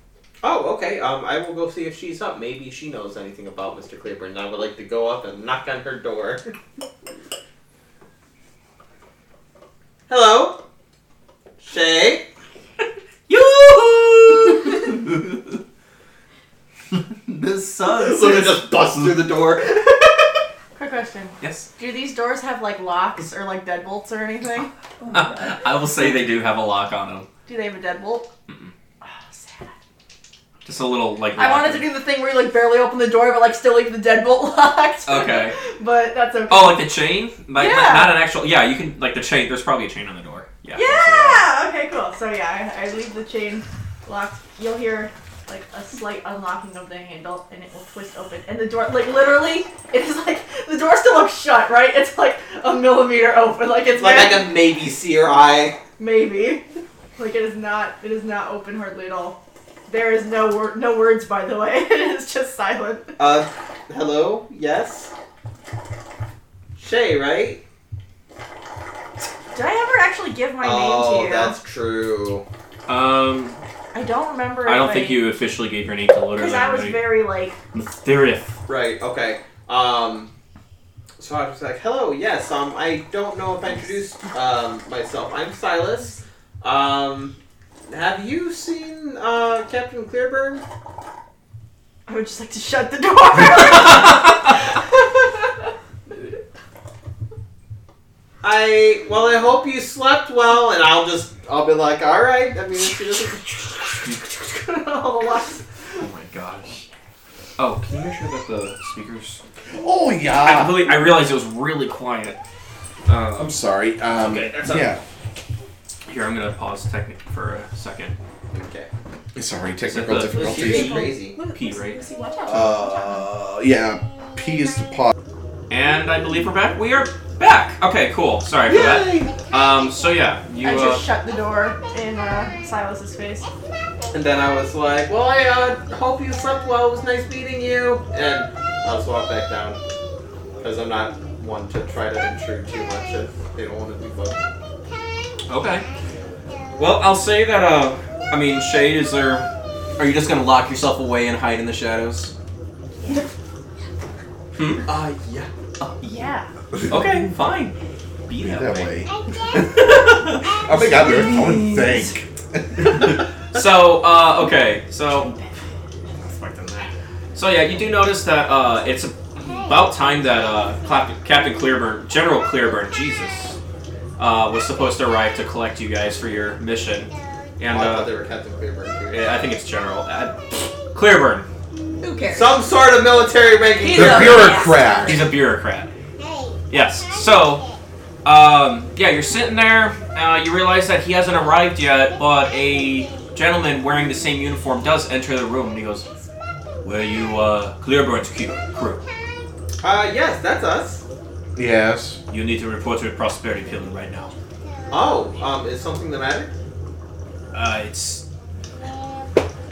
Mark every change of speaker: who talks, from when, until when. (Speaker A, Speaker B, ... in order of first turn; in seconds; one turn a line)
Speaker A: 0.4-6.5
Speaker A: 10.1-10.6
Speaker A: 11.6-12.3
Speaker B: 13.3-14.4
Speaker A: 17.8-20.0
Speaker B: 17.9-19.0
Speaker C: 20.7-24.7
Speaker B: 21.4-21.7
Speaker D: 25.0-25.7
Speaker B: 25.1-27.3
Speaker C: 27.4-28.3
Speaker C: 29.0-29.7
Speaker B: 30.6-31.9
Speaker C: 31.3-36.9
Speaker B: 35.0-35.5
Speaker B: 36.5-41.4
Speaker C: 37.5-38.2
Speaker C: 40.7-54.5
Speaker A: 54.0-55.8
Speaker C: 56.0-56.6
Speaker C: 57.1-63.1
Speaker A: 63.2-65.1
Speaker A: 66.8-67.6
Speaker C: 69.5-71.6
Speaker A: 70.6-72.4
Speaker B: 72.9-73.6
Speaker C: 73.9-75.3
Speaker B: 74.6-77.1
Speaker C: 76.3-77.6
Speaker B: 77.7-78.6
Speaker A: 78.7-80.3
Speaker A: 81.2-90.6
Speaker C: 92.1-94.4
Speaker A: 98.4-103.8
Speaker C: 103.9-106.0
Speaker B: 106.0-106.8
Speaker B: 107.6-109.4
Speaker E: 109.7-111.0
Speaker B: 110.4-112.4
Speaker B: 113.0-113.6
Speaker E: 113.3-115.0
Speaker B: 114.3-114.5
Speaker A: 114.3-114.8
Speaker B: 116.0-118.1
Speaker A: 118.5-118.9
Speaker E: 119.3-121.1
Speaker B: 119.8-122.0
Speaker A: 120.3-121.4
Speaker D: 121.0-123.2
Speaker E: 122.5-125.1
Speaker B: 125.7-131.0
Speaker F: 129.3-130.3
Speaker C: 130.6-133.5
Speaker F: 131.3-132.6
Speaker F: 134.0-134.3
Speaker A: 134.1-139.8
Speaker F: 136.3-136.8
Speaker A: 140.6-144.4
Speaker F: 142.7-143.2
Speaker F: 144.9-145.9
Speaker B: 145.5-145.8
Speaker F: 146.6-147.0
Speaker B: 146.8-149.5
Speaker F: 148.3-149.4
Speaker B: 150.0-152.3
Speaker B: 154.5-154.9
Speaker A: 154.8-155.5
Speaker C: 156.0-156.5
Speaker B: 156.9-157.8
Speaker B: 158.3-158.9
Speaker E: 158.4-159.1
Speaker F: 159.0-160.7
Speaker E: 160.4-163.1
Speaker C: 160.7-162.1
Speaker B: 163.5-165.3
Speaker C: 165.1-165.4
Speaker B: 167.3-173.5
Speaker F: 169.4-173.5
Speaker B: 174.2-178.1
Speaker F: 177.0-177.7
Speaker A: 177.7-179.3
Speaker B: 179.1-181.5
Speaker D: 182.0-182.6
Speaker A: 182.3-184.6
Speaker D: 183.8-185.2
Speaker E: 183.9-185.3
Speaker B: 185.1-185.9
Speaker F: 186.2-187.8
Speaker B: 186.7-187.6
Speaker B: 188.2-196.1
Speaker F: 191.8-194.4
Speaker F: 195.7-197.4
Speaker B: 196.8-199.0
Speaker F: 198.5-199.4
Speaker A: 199.8-201.0
Speaker E: 201.6-202.2
Speaker B: 202.3-204.3
Speaker F: 204.3-205.5
Speaker A: 204.9-206.5
Speaker B: 207.5-208.2
Speaker F: 208.8-209.4